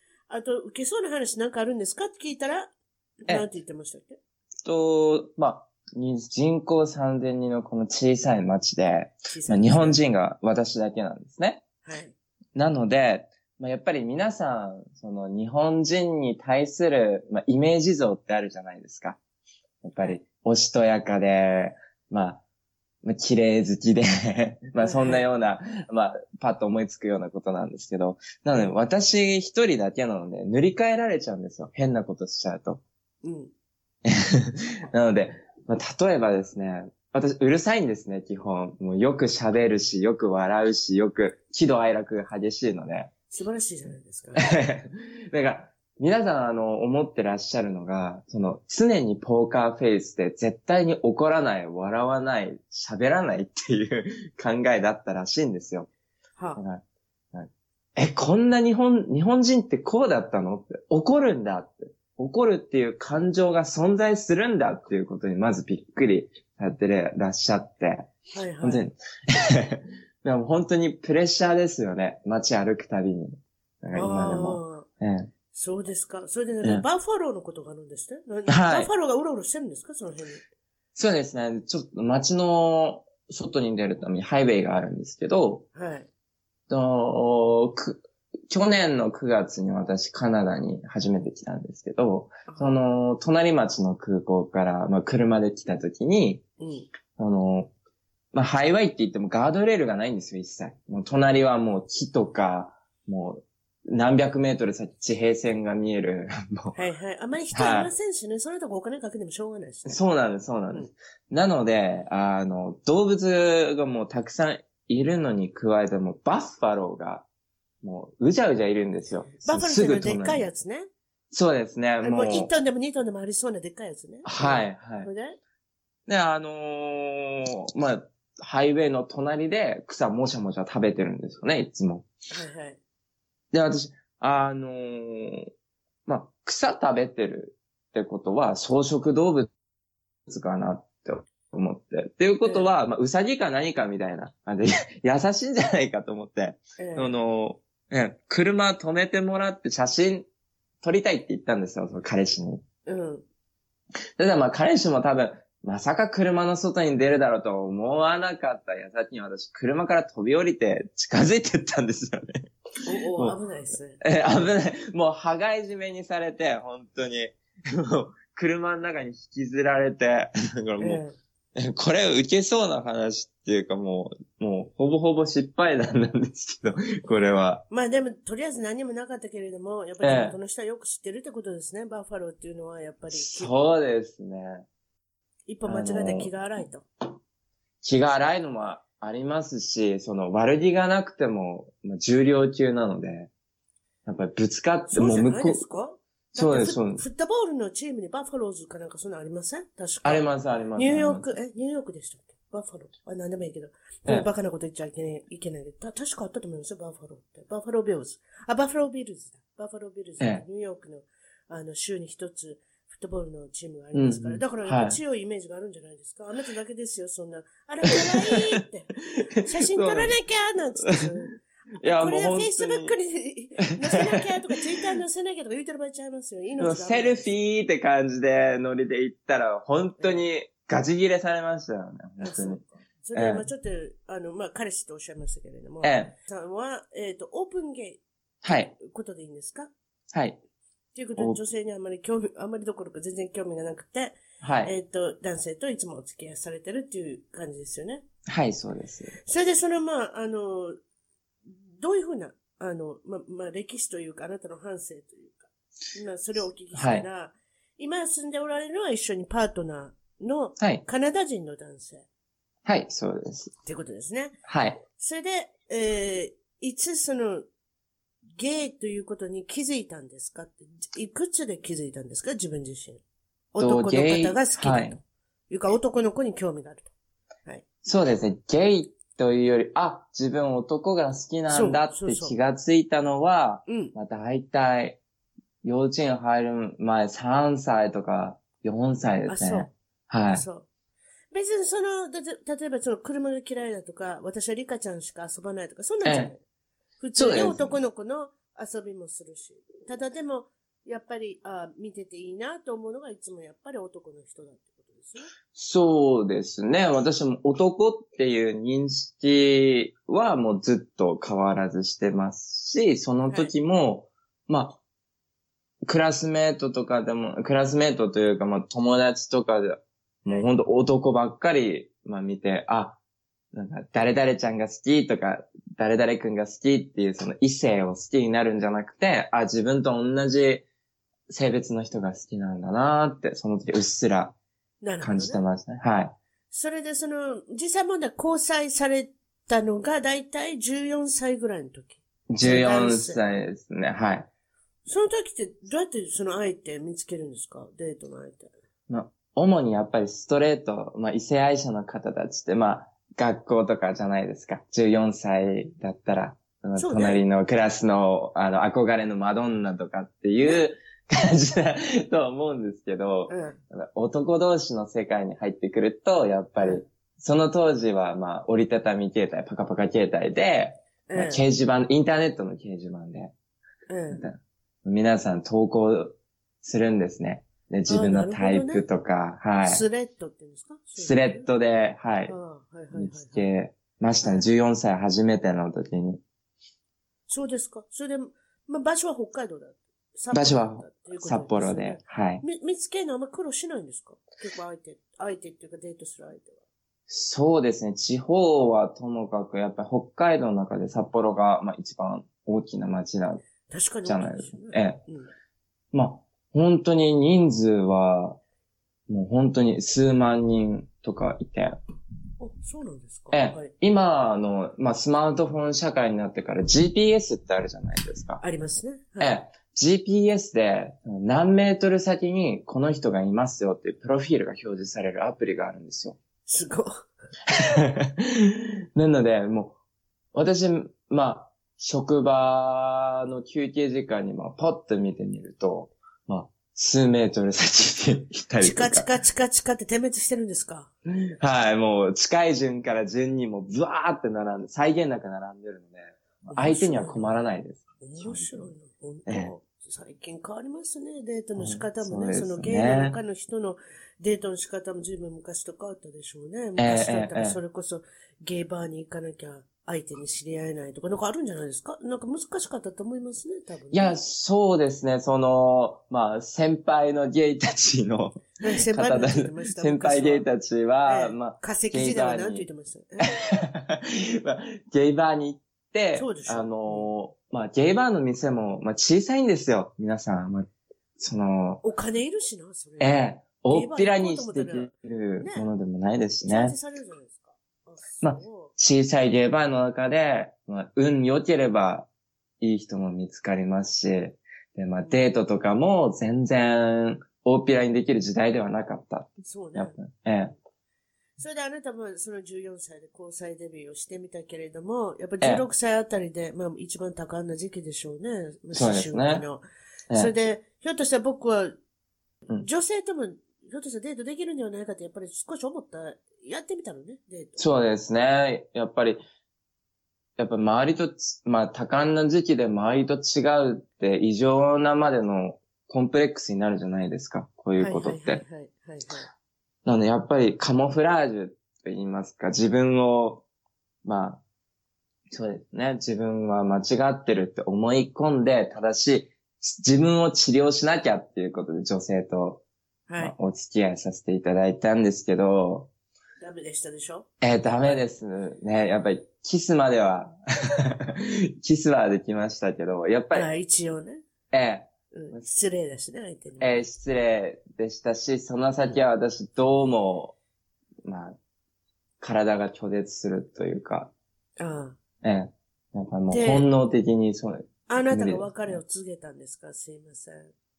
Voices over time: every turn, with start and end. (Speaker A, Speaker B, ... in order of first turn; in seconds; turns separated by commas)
Speaker A: 0.3-4.2, Speaker B: 4.7-11.7, Speaker A: 9.3-10.0, Speaker A: 11.8-12.2, Speaker B: 12.6-19.2, Speaker B: 19.8-22.4, Speaker B: 23.0-32.8, Speaker A: 24.8-25.2, Speaker A: 33.2-33.5, Speaker B: 34.0-43.1, Speaker A: 43.3-44.5, Speaker B: 44.4-55.9, Speaker B: 56.6-68.1, Speaker A: 68.3-68.8, Speaker B: 68.6-75.3, Speaker A: 74.0-74.9, Speaker A: 75.5-80.4, Speaker B: 78.5-78.9, Speaker B: 81.0-85.7, Speaker A: 85.8-86.1, Speaker B: 86.7-96.4, Speaker A: 92.5-92.7, Speaker A: 96.6-96.9, Speaker B: 97.2-97.7, Speaker B: 98.3-106.8, Speaker A: 106.8-110.0, Speaker B: 107.5-107.9, Speaker B: 109.9-117.3, Speaker B: 117.8-120.5, Speaker A: 119.3-120.9, Speaker B: 121.3-122.5, Speaker A: 122.0-125.4, Speaker B: 124.3-125.1, Speaker B: 126.1-132.1, Speaker A: 132.3-132.8, Speaker B: 133.5-135.5, Speaker B: 136.1-139.5, Speaker B: 140.3-150.3, Speaker A: 142.4-142.7, Speaker A: 146.8-147.1, Speaker B: 150.8-152.6, Speaker A: 152.9-153.2, Speaker B: 154.2-162.5, Speaker A: 162.8-164.0, Speaker B: 164.0-171.0, Speaker A: 170.8-171.2, Speaker B: 171.6-177.6, Speaker A: 177.7-183.5, Speaker B: 180.0-180.4, Speaker B: 183.1-184.7, Speaker A: 185.5-186.8, Speaker B: 185.7-186.3, Speaker B: 187.8-193.3, Speaker B: 194.1-195.6, Speaker A: 194.9-227.3, Speaker B: 196.3-197.0, Speaker B: 200.0-201.2, Speaker B: 213.9-215.0, Speaker B: 217.9-218.6, Speaker B: 219.2-220.2, Speaker B: 220.8-221.2, Speaker B: 221.8-222.9, Speaker B: 223.8-224.9, Speaker B: 226.6-232.6, Speaker A: 230.0-230.2, Speaker A: 232.2-238.0, Speaker B: 233.1-233.5, Speaker B: 235.8-236.1, Speaker B: 238.4-238.8, Speaker A: 238.8-239.7, Speaker B: 240.1-240.4, Speaker A: 240.9-248.0, Speaker B: 241.2-241.4, Speaker B: 244.4-244.7, Speaker B: 248.3-249.2, Speaker A: 249.2-250.8, Speaker A: 251.5-262.1, Speaker B: 256.7-257.1, Speaker B: 262.7-263.5, Speaker A: 263.6-264.4, Speaker B: 264.5-264.8, Speaker A: 264.9-267.5, Speaker A: 268.4-273.0, Speaker A: 273.5-276.9, Speaker B: 273.6-275.0, Speaker B: 277.9-285.0, Speaker A: 281.5-282.4, Speaker A: 283.7-283.9, Speaker B: 285.6-290.4, Speaker A: 289.3-289.7, Speaker A: 290.3-290.7, Speaker A: 291.3-296.4, Speaker B: 296.0-296.3, Speaker A: 297.0-305.3, Speaker B: 297.2-297.8, Speaker B: 305.5-314.8, Speaker B: 315.9-323.0, Speaker B: 323.5-330.7, Speaker B: 331.3-334.4, Speaker A: 334.8-335.4, Speaker B: 335.0-336.1, Speaker A: 336.5-343.2, Speaker B: 342.3-344.3, Speaker A: 344.9-348.5, Speaker B: 348.9-373.3, Speaker A: 356.8-357.2, Speaker A: 363.3-363.6, Speaker A: 371.1-371.4, Speaker A: 373.9-374.2, Speaker B: 374.1-379.8, Speaker A: 377.9-378.8, Speaker A: 379.6-381.4, Speaker B: 381.0-382.4, Speaker A: 382.3-383.4, Speaker B: 382.9-386.2, Speaker A: 384.2-384.5, Speaker A: 387.3-396.6, Speaker B: 390.3-392.4, Speaker B: 397.1-403.5, Speaker A: 403.7-405.3, Speaker B: 404.1-405.0, Speaker B: 405.9-408.4, Speaker B: 409.1-411.8, Speaker A: 412.4-413.7, Speaker B: 413.3-418.4, Speaker A: 418.4-419.4, Speaker B: 419.2-426.2, Speaker A: 426.5-426.9, Speaker B: 427.5-429.8, Speaker B: 430.3-439.1, Speaker A: 438.6-440.9, Speaker B: 441.4-448.7, Speaker A: 446.5-447.3, Speaker A: 448.0-464.2, Speaker B: 449.3-449.5, Speaker B: 451.6-453.2, Speaker B: 456.8-457.6, Speaker B: 463.9-472.7, Speaker A: 468.6-470.5, Speaker A: 471.1-473.3, Speaker B: 473.3-481.8, Speaker A: 476.1-477.1, Speaker A: 481.8-485.7, Speaker B: 483.0-486.8, Speaker A: 486.4-488.7, Speaker B: 488.2-492.1, Speaker B: 492.6-500.5, Speaker A: 499.4-500.0, Speaker A: 501.4-511.8, Speaker B: 508.7-509.4, Speaker A: 512.6-517.7, Speaker B: 517.6-519.2, Speaker B: 520.4-528.4, Speaker A: 527.8-529.3, Speaker B: 529.9-533.5, Speaker B: 534.0-534.4, Speaker B: 535.3-542.6, Speaker A: 543.1-543.4, Speaker B: 543.2-545.9, Speaker A: 546.4-547.3, Speaker B: 547.4-553.5, Speaker A: 553.3-554.2, Speaker B: 554.5-555.5, Speaker A: 555.1-556.8, Speaker B: 556.6-560.4, Speaker B: 561.0-561.4, Speaker B: 562.2-564.1, Speaker A: 564.6-565.0, Speaker B: 565.2-568.8, Speaker A: 566.3-566.7, Speaker A: 567.9-570.5